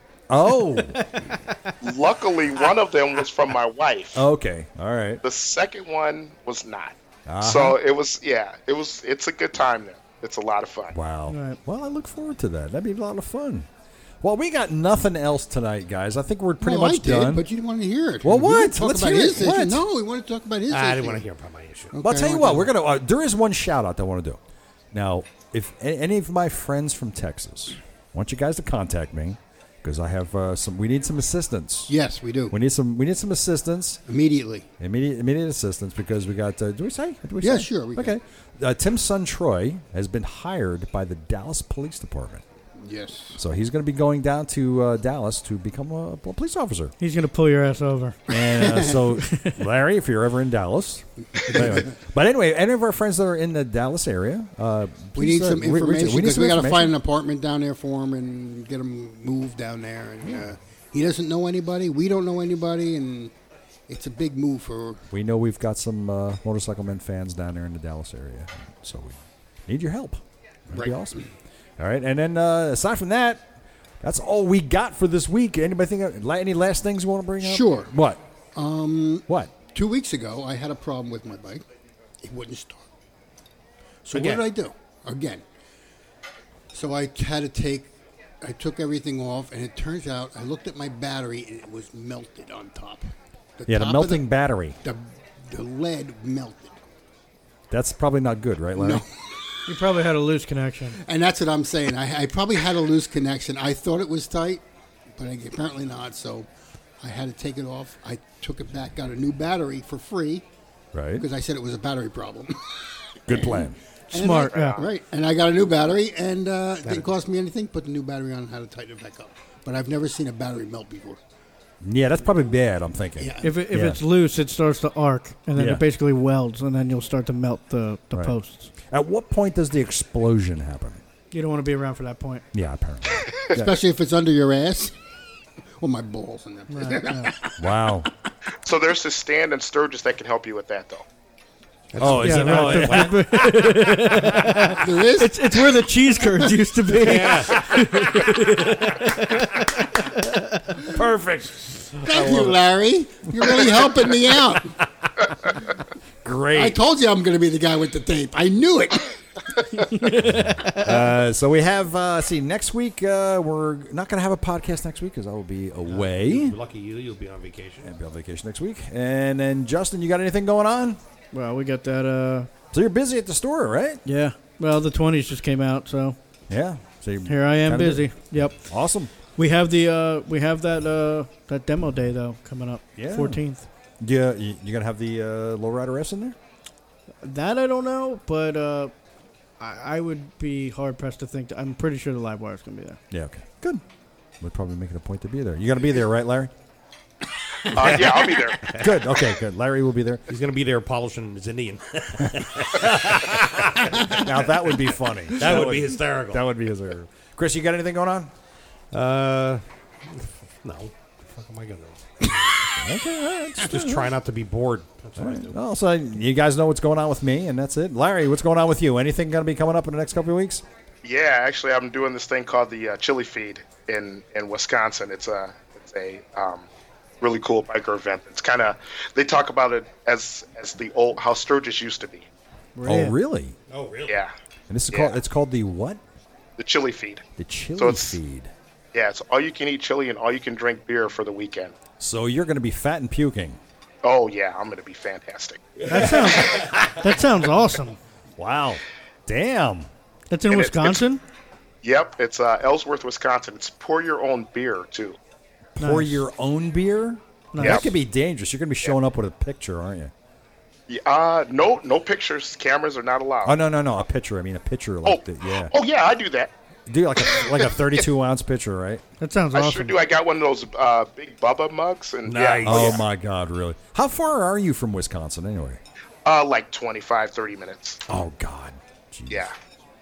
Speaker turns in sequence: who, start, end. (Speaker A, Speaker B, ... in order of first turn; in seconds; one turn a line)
Speaker A: 0.3-1.0
Speaker B: 0.9-1.7
Speaker C: 1.8-4.2
Speaker A: 4.1-5.2
Speaker C: 5.2-10.9
Speaker A: 7.2-7.8
Speaker A: 10.9-13.7
Speaker B: 11.3-11.6
Speaker A: 14.2-17.4
Speaker D: 16.6-21.2
Speaker A: 18.2-19.8
Speaker E: 20.7-21.9
Speaker D: 21.9-22.7
Speaker A: 22.0-24.4
Speaker A: 24.9-31.9
Speaker D: 31.9-32.5
Speaker A: 32.5-34.0
Speaker D: 34.1-34.7
Speaker A: 34.8-42.4
Speaker D: 37.4-38.1
Speaker D: 42.8-43.4
Speaker A: 43.3-46.9
Speaker B: 47.0-48.2
Speaker A: 48.3-56.9
Speaker D: 48.3-49.0
Speaker B: 49.1-49.6
Speaker D: 51.4-51.9
Speaker D: 55.1-63.3
Speaker D: 63.9-65.0
Speaker A: 65.1-78.2
Speaker D: 77.4-77.9
Speaker D: 78.5-81.6
Speaker D: 82.2-82.9
Speaker D: 84.0-85.4
Speaker E: 84.1-84.5
Speaker D: 86.7-93.0
Speaker D: 93.6-94.2
Speaker A: 93.7-94.8
Speaker D: 94.8-96.8
Speaker A: 97.7-99.0
Speaker D: 98.7-99.0
Speaker B: 99.7-101.0
Speaker D: 101.0-104.6
Speaker D: 105.1-106.5
Speaker D: 107.0-110.5
Speaker A: 110.9-111.2
Speaker D: 111.2-121.2
Speaker A: 113.3-113.8
Speaker B: 114.1-114.8
Speaker A: 121.8-124.0
Speaker D: 123.2-123.5
Speaker B: 123.4-128.7
Speaker A: 125.5-125.8
Speaker A: 128.9-131.0
Speaker B: 131.3-132.4
Speaker A: 132.5-133.7
Speaker D: 133.5-134.9
Speaker D: 135.8-137.7
Speaker B: 136.7-137.3
Speaker A: 137.6-138.1
Speaker C: 138.6-141.1
Speaker E: 141.9-144.1
Speaker A: 142.0-143.8
Speaker B: 142.1-150.8
Speaker D: 144.6-145.4
Speaker E: 146.9-147.7
Speaker A: 150.8-152.6
Speaker D: 152.1-154.7
Speaker A: 156.2-156.8
Speaker D: 156.5-159.2
Speaker B: 159.7-161.2
Speaker A: 160.2-166.6
Speaker E: 165.8-167.9
Speaker A: 167.8-171.0
Speaker B: 171.3-172.5
Speaker A: 172.7-174.0
Speaker B: 174.0-176.2
Speaker A: 176.5-179.1
Speaker B: 177.2-178.7
Speaker B: 179.3-183.7
Speaker A: 182.9-183.4
Speaker A: 184.0-186.3
Speaker B: 187.2-188.9
Speaker B: 189.6-193.0
Speaker A: 193.1-193.8
Speaker A: 194.4-196.5
Speaker C: 197.7-198.7
Speaker A: 197.7-200.2
Speaker E: 198.6-198.9
Speaker E: 200.3-204.3
Speaker A: 204.0-208.3
Speaker E: 205.3-206.4
Speaker E: 208.9-212.6
Speaker A: 212.7-214.1
Speaker E: 213.6-215.5
Speaker A: 215.2-220.6
Speaker C: 221.0-226.7
Speaker C: 227.2-232.3
Speaker B: 232.8-233.2
Speaker A: 232.8-233.6
Speaker E: 233.7-234.2
Speaker C: 234.1-234.3
Speaker A: 234.7-236.0
Speaker C: 234.9-235.2
Speaker C: 236.6-237.2
Speaker A: 237.4-238.5
Speaker C: 237.8-238.2
Speaker C: 238.9-241.7
Speaker A: 242.0-243.6
Speaker C: 244.0-245.7
Speaker E: 245.8-247.0
Speaker B: 245.9-248.0
Speaker A: 248.4-249.9
Speaker B: 250.3-251.2
Speaker C: 250.5-251.0
Speaker C: 251.8-255.2
Speaker A: 255.8-260.1
Speaker B: 255.8-256.2
Speaker B: 257.5-257.9
Speaker C: 257.6-257.9
Speaker C: 260.9-263.6
Speaker A: 263.4-265.7
Speaker C: 265.0-266.5
Speaker A: 266.9-269.0
Speaker C: 267.3-267.7
Speaker B: 269.2-269.9
Speaker C: 269.5-273.0
Speaker E: 272.2-273.0
Speaker A: 272.6-275.8
Speaker C: 276.2-278.0
Speaker A: 278.1-279.5